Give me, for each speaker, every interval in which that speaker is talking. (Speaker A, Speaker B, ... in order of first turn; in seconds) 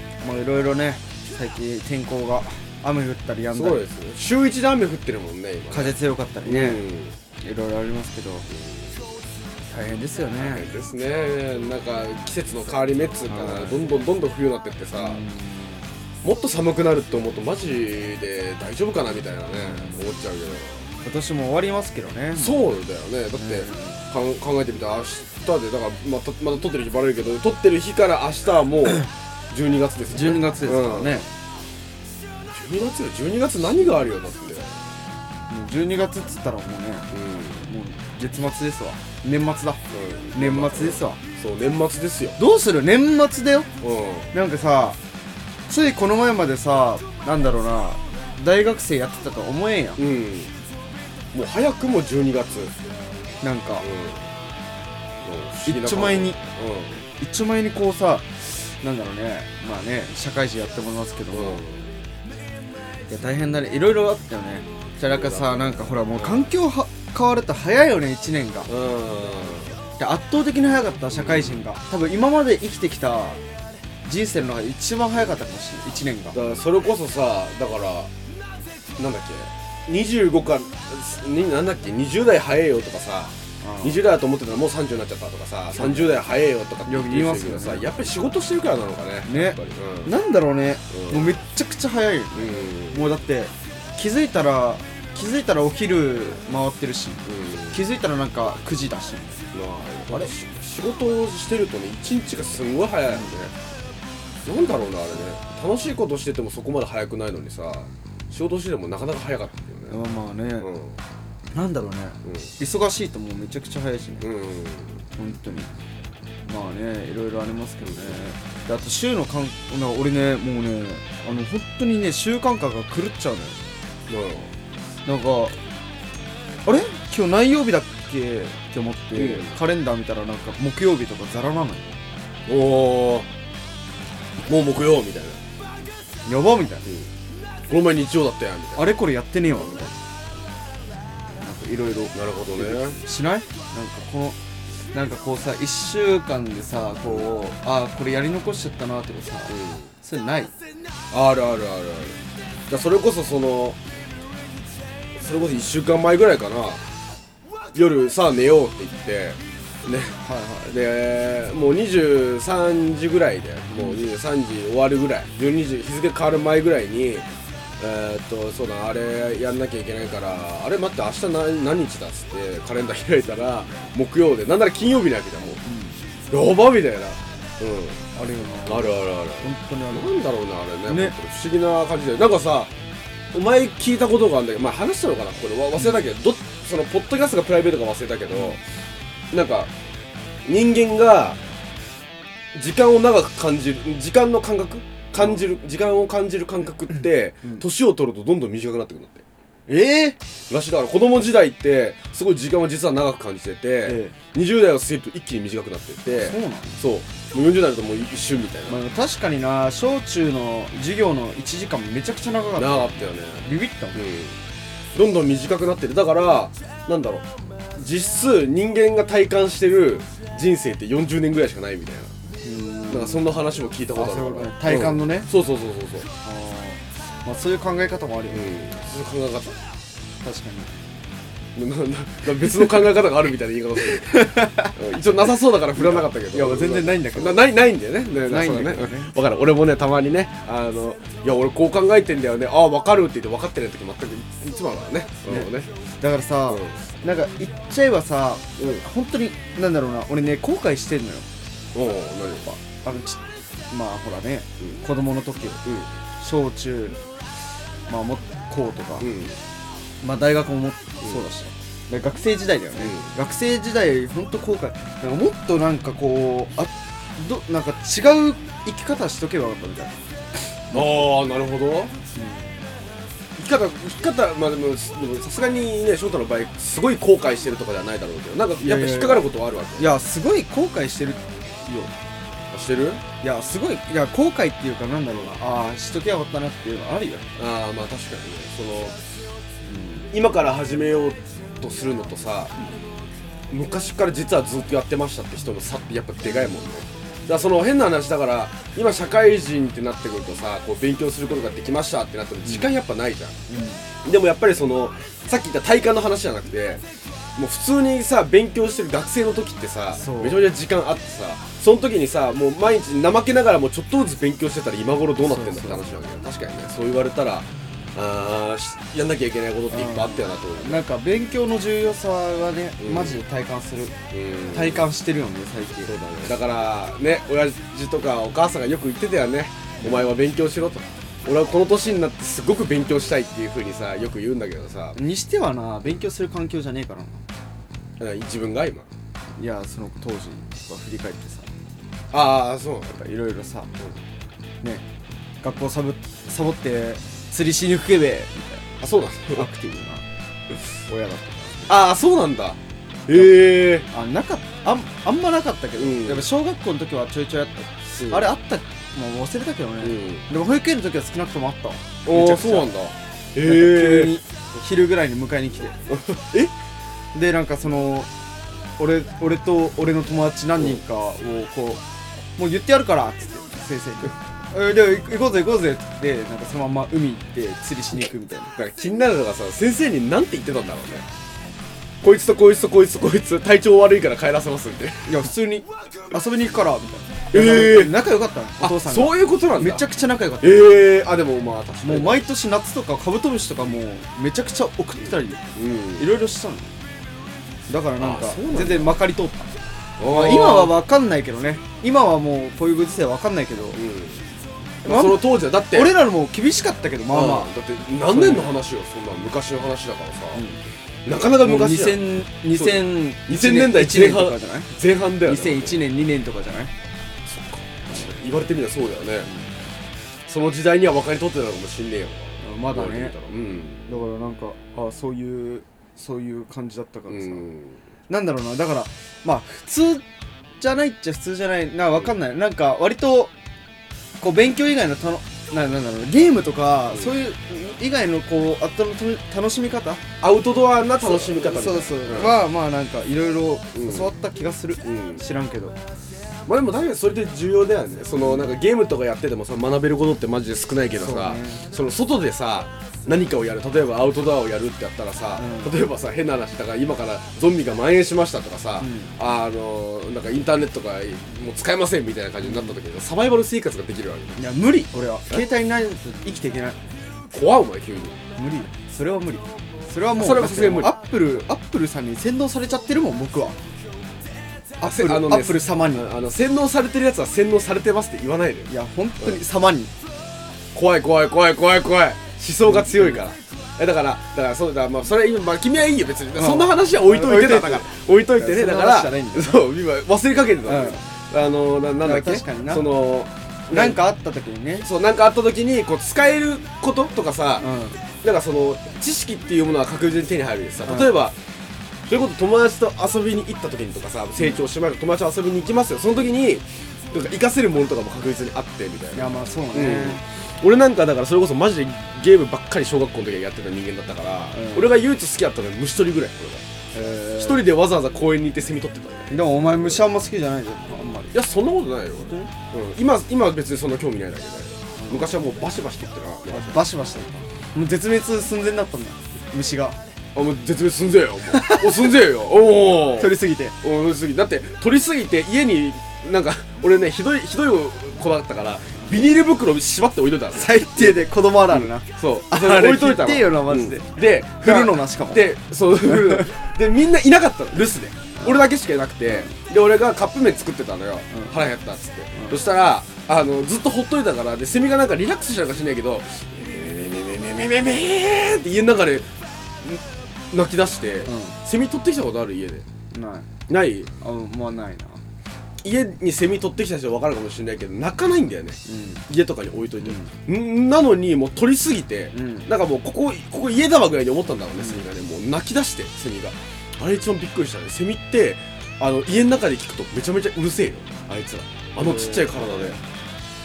Speaker A: 0.2-3.8, 5.7-6.8, 7.4-8.5, 9.7-10.7, 13.3-13.8, 15.0-15.8, 19.5-20.1, 21.0-22.6, 23.4-24.0, 30.1-31.2, 35.5-37.1, 37.6-39.8, 40.3-41.2, 42.4-43.7, 44.3-45.0, 45.7-50.0, 53.4-53.9, 55.6-56.4, 57.2-61.6, 63.1-68.7, 70.0-73.4, 74.0-76.5, 83.6-84.0, 85.7-86.3, 86.8-87.8, 89.3-99.4, 109.9-110.7, 111.5-114.3, 115.2-115.7, 116.4-123.6, 125.0-125.6, 126.6-131.9, 136.2-136.9, 138.8-139.9, 141.4-144.4, 144.9-150.5, 160.2-160.7, 163.7-164.0, 175.6-176.0, 178.1-180.2, 180.9-181.1, 185.8-186.1, 188.3-188.6, 199.7-200.2, 203.8-204.1, 206.1-206.8, 208.7-214.0, 222.4-223.3, 223.9-225.3, 226.2-228.4, 230.2-230.7, 233.8-234.8, 235.7-237.4, 238.2-239.1, 245.3-251.3, 252.4-255.6, 256.2-257.0, 257.9-259.1, 260.0-271.1, 272.1-272.6, 278.6-281.9, 283.2-287.3, 289.6-290.1, 303.5-303.8, 309.9-310.5, 315.2-315.8, 319.7-323.9, 324.5-325.9, 329.8-330.2, 334.9-337.2, 339.4-341.5, 342.9-343.7, 345.4-348.8, 349.3-350.0, 350.6-351.8, 353.9-362.7, 363.4-365.8, 367.1-368.1, 368.8-371.8, 372.4-378.5, 385.0-390.7, 391.8-395.4, 396.0-396.7, 397.7-399.5, 400.0-403.8, 404.8-405.2, 405.7-407.5, 408.0-408.6, 410.3-410.6, 411.4-414.7, 415.2-416.7, 419.2-419.5, 422.4-423.2, 423.9-427.4, 428.1-430.0, 430.6-433.3, 434.2-440.0, 441.0-445.8, 448.2-448.5, 450.9-451.6, 455.4-455.8, 458.8-459.1, 462.4-462.7, 464.4-466.8, 468.4-473.6, 474.8-476.1, 478.7-479.9, 482.6-483.2, 486.4-489.6, 490.6-491.0, 492.0-492.9, 493.7-494.9, 497.6-498.0, 500.9-501.1, 509.1-510.2, 514.5-514.9, 516.9-517.7, 519.3-521.4, 522.2-522.5, 525.0-525.3, 526.5-530.0, 531.5-532.1, 533.0-533.7, 540.5-545.4, 546.1-546.5, 549.2-549.5, 551.3-551.5, 552.3-552.6, 561.2-561.5, 563.1-563.5, 564.2-565.2, 568.9-569.2, 570.0-570.3, 572.3-572.7, 574.8-575.0, 582.0-583.0
Speaker B: 3.5-7.2, 8.5-9.0, 10.3-15.2, 16.2-20.9, 22.4-31.3, 32.5-34.7, 37.1-37.7, 39.9-42.4, 43.8-44.3, 50.0-50.5, 51.3-52.7, 53.8-54.3, 55.2-57.0, 61.3-61.9, 65.1-66.5, 68.7-69.8, 71.1-71.6, 76.3-78.1, 79.0-90.1, 90.9-91.4, 92.3-93.0, 97.2-97.8, 99.5-103.5, 104.4-110.0, 110.6-111.0, 112.2-112.5, 114.2-115.0, 117.8-118.2, 124.1-124.5, 129.1-129.6, 132.5-133.3, 134.4-135.4, 137.7-138.9, 142.1-143.0, 149.5-149.9, 151.1-153.8, 155.2-156.8, 157.7-167.3, 167.8-175.6, 176.3-178.0, 178.7-182.7, 183.3-188.6, 189.3-189.7, 190.4-191.4, 192.5-199.2, 200.5-208.8, 212.6-214.4, 214.9-222.1, 222.9-226.1, 228.3-229.6, 231.5-245.7, 246.5-246.8, 248.6-248.8, 251.7-252.5, 255.6-255.9, 259.0-259.4, 262.8-263.1, 270.7-271.9, 273.4-279.9, 282.5-283.0, 287.4-289.0, 290.1-292.6, 293.5-303.4, 304.0-306.8, 307.4-320.8, 322.8-323.2, 324.1-324.9, 325.8-335.0, 338.0-338.9, 342.1-343.0, 348.8-349.5, 351.7-353.9, 355.8-356.3, 358.0-358.2, 359.8-360.2, 362.1-364.2, 365.9-366.5, 378.5-381.0, 382.0-385.2, 387.3-387.9, 388.6-389.8, 390.4-392.2, 395.5-396.1, 398.0-399.0, 400.0-400.7, 403.7-404.2, 404.8-405.9, 407.1-410.4, 411.0-415.8, 417.2-419.3, 420.3-423.8, 427.1-427.8, 436.9-437.1, 440.2-442.4, 443.7-444.1, 444.8-445.2, 446.4-464.4, 467.3-468.2, 470.2-470.9, 474.8-479.4, 480.7-494.0, 494.8-497.7, 498.2-501.4, 502.1-516.6, 517.3-520.0, 521.3-526.8, 530.3-559.3, 559.8-562.8, 563.7-564.1, 565.8-583.0